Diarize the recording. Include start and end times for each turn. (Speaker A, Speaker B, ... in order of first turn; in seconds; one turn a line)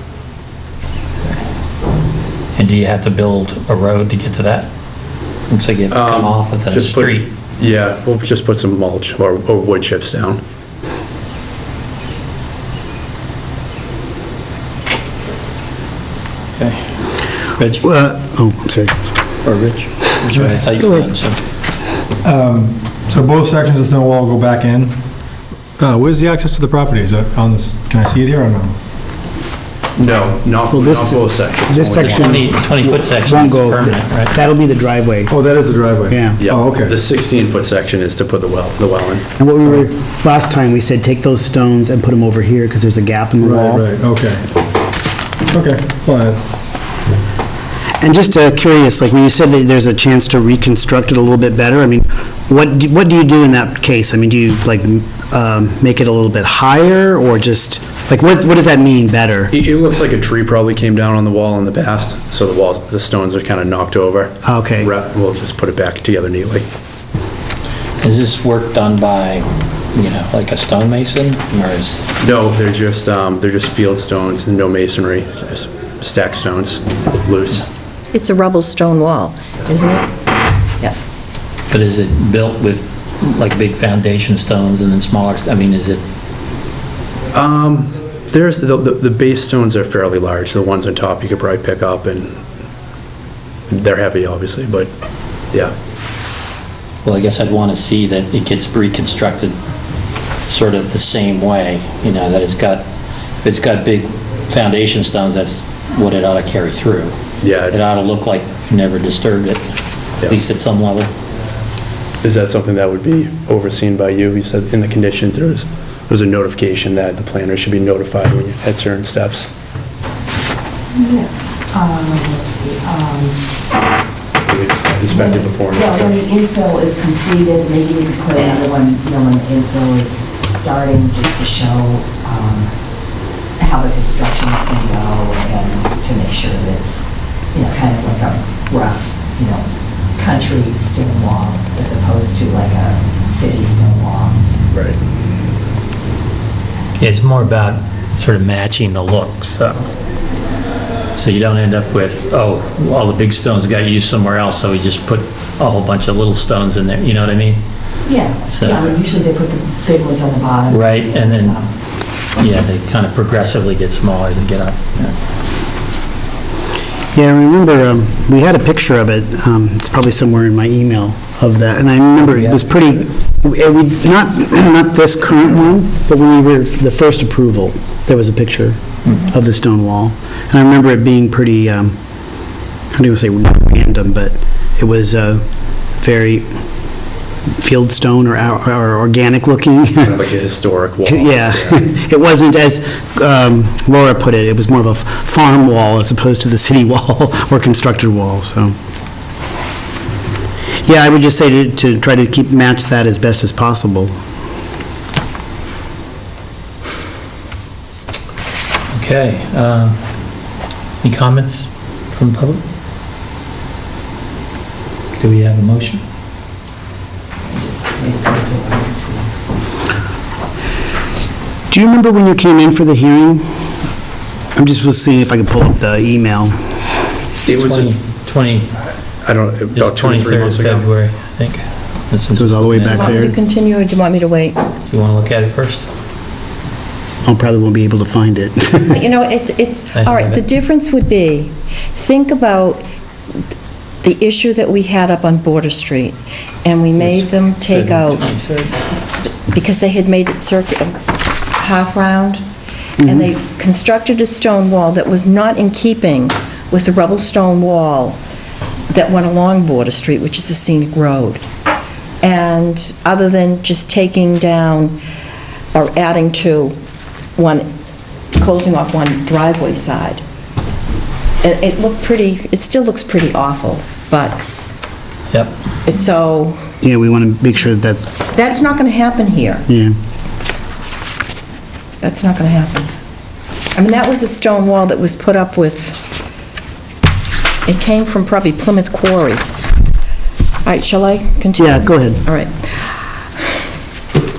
Speaker A: 2.5-4.7
Speaker A: 5.5-7.3
Speaker B: 5.9-10.4
Speaker A: 16.6-16.9
Speaker A: 17.6-17.8
Speaker C: 17.8-18.9
Speaker A: 19.4-21.4
Speaker D: 20.3-20.6
Speaker C: 20.8-21.1
Speaker D: 22.2-25.0
Speaker D: 25.8-28.7
Speaker B: 30.0-32.5
Speaker C: 30.7-35.3
Speaker A: 32.0-34.4
Speaker D: 35.3-36.9
Speaker C: 36.1-36.4
Speaker B: 36.4-39.2
Speaker C: 39.4-43.9
Speaker D: 43.4-44.4
Speaker D: 45.5-46.4
Speaker C: 48.0-59.5
Speaker B: 59.5-66.7
Speaker C: 64.4-64.9
Speaker A: 68.0-72.0
Speaker B: 72.2-77.6
Speaker E: 78.1-80.1
Speaker A: 81.7-86.0
Speaker B: 87.3-92.4
Speaker B: 93.7-94.9
Speaker A: 97.0-99.6
Speaker A: 100.5-102.8
Speaker A: 103.4-107.2
Speaker B: 107.4-107.8
Speaker A: 107.7-109.6
Speaker A: 110.3-111.1
Speaker B: 112.2-119.5
Speaker B: 124.5-126.3
Speaker F: 125.8-126.6
Speaker F: 127.7-128.5
Speaker E: 128.6-129.1
Speaker F: 129.4-132.5
Speaker F: 133.6-136.1
Speaker E: 134.2-134.7
Speaker E: 136.2-136.7
Speaker E: 140.3-140.8
Speaker E: 141.5-142.7
Speaker B: 144.7-145.0
Speaker A: 147.0-149.9
Speaker A: 151.1-157.6
Speaker A: 158.4-158.9
Speaker A: 160.7-161.6
Speaker A: 162.4-165.1
Speaker C: 167.1-182.4
Speaker A: 172.3-173.1
Speaker C: 182.9-185.4
Speaker C: 186.0-186.5
Speaker C: 187.6-190.2
Speaker B: 190.0-191.8
Speaker C: 191.0-198.7
Speaker C: 200.8-204.1
Speaker A: 208.9-210.0
Speaker A: 211.0-212.6
Speaker A: 215.2-216.0
Speaker F: 217.6-219.3
Speaker C: 221.7-223.5
Speaker C: 224.5-226.6
Speaker B: 227.4-227.9
Speaker A: 227.5-228.7
Speaker B: 229.2-230.9
Speaker A: 229.7-233.3
Speaker C: 232.3-233.3
Speaker E: 232.9-234.6
Speaker A: 234.9-235.9
Speaker C: 237.2-239.0
Speaker E: 238.9-242.8
Speaker A: 239.9-240.4
Speaker E: 244.0-248.2
Speaker A: 247.0-248.8
Speaker E: 249.5-250.9
Speaker E: 251.5-252.4
Speaker C: 253.0-253.3
Speaker E: 253.0-258.2
Speaker E: 258.9-261.4
Speaker E: 262.2-265.0
Speaker E: 265.7-266.7
Speaker E: 267.4-267.7
Speaker E: 268.4-270.2
Speaker E: 271.4-274.4
Speaker E: 275.8-276.6
Speaker C: 276.8-278.1
Speaker E: 278.3-279.6
Speaker C: 279.7-279.9
Speaker E: 282.0-282.9
Speaker E: 283.7-286.1
Speaker E: 287.6-289.5
Speaker E: 290.6-292.5
Speaker C: 291.6-292.2